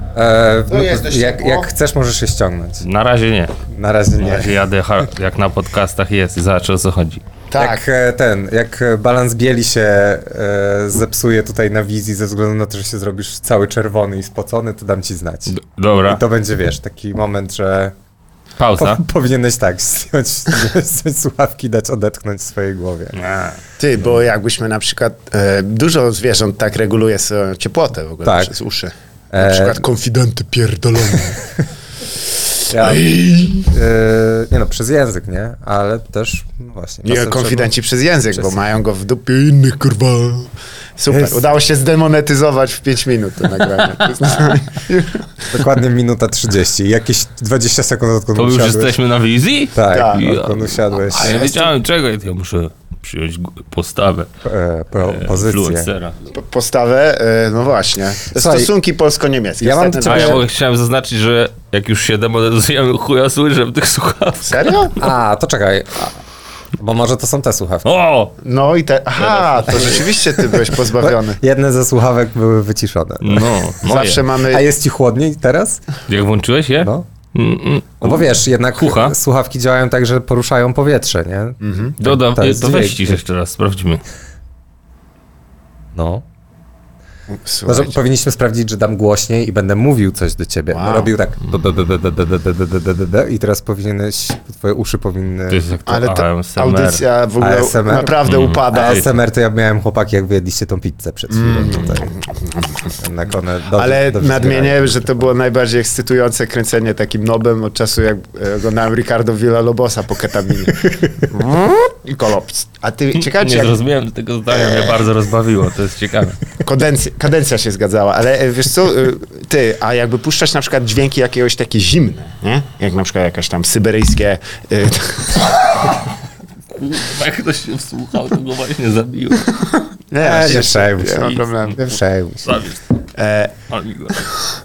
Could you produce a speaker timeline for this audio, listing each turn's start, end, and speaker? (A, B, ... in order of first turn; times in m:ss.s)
0:00.2-0:02.9 A
0:00.7-0:01.7 B
0:02.8-0:03.6 C
0:03.7-0:04.6 A
0:04.2-0:07.2 C
0:07.5-0:07.8 B
0:07.6-0:15.6 A
0:15.5-0:16.2 C
0:16.1-0:17.9 A
0:18.6-0:19.0 C
0:18.8-0:23.2 A
0:23.2-0:23.6 C
0:23.8-0:31.4 B
0:28.2-0:28.5 A
0:29.3-0:29.8 A
0:32.7-0:33.7 B
0:32.7-0:37.7 A
0:37.0-0:45.3 B
0:41.1-0:41.4 A
0:45.5-0:48.9 A
0:48.4-0:54.3 C
0:49.7-0:51.7 A
0:49.9-0:50.2 B
0:54.4-0:55.9 A
0:55.0-0:56.2 C
0:56.3-1:00.4 B
0:58.3-0:58.7 A
0:59.6-1:00.4 A
1:00.1-1:04.9 C
1:04.4-1:05.0 B
1:05.0-1:06.2 A
1:06.8-1:07.9 A
1:07.8-1:08.3 C
1:08.4-1:11.4 B
1:09.2-1:10.0 C
1:09.7-1:10.0 A
1:10.9-1:13.6 A
1:13.2-1:14.2 C
1:13.8-1:14.6 B
1:14.5-1:15.8 A
1:16.1-1:19.2 C
1:18.0-1:23.2 A
1:21.6-1:22.0 B
1:22.0-1:24.0 C
1:26.0-1:26.2 A
1:27.3-1:28.0 B
1:27.7-1:35.7 A
1:30.7-1:31.1 B
1:35.5-1:37.0 C
1:35.9-1:39.1 B
1:37.4-1:42.2 A
1:38.3-1:39.0 C
1:41.3-1:42.8 B
1:43.0-1:45.3 A
1:43.8-1:53.8 B
1:53.2-1:56.4 C
1:54.6-1:55.0 B
1:56.6-2:05.6 B
2:06.7-2:09.6 C
2:10.1-2:11.8 B
2:10.2-2:12.6 A
2:11.2-2:11.7 C
2:12.4-2:12.8 C
2:13.2-2:13.5 B
2:13.7-2:14.3 C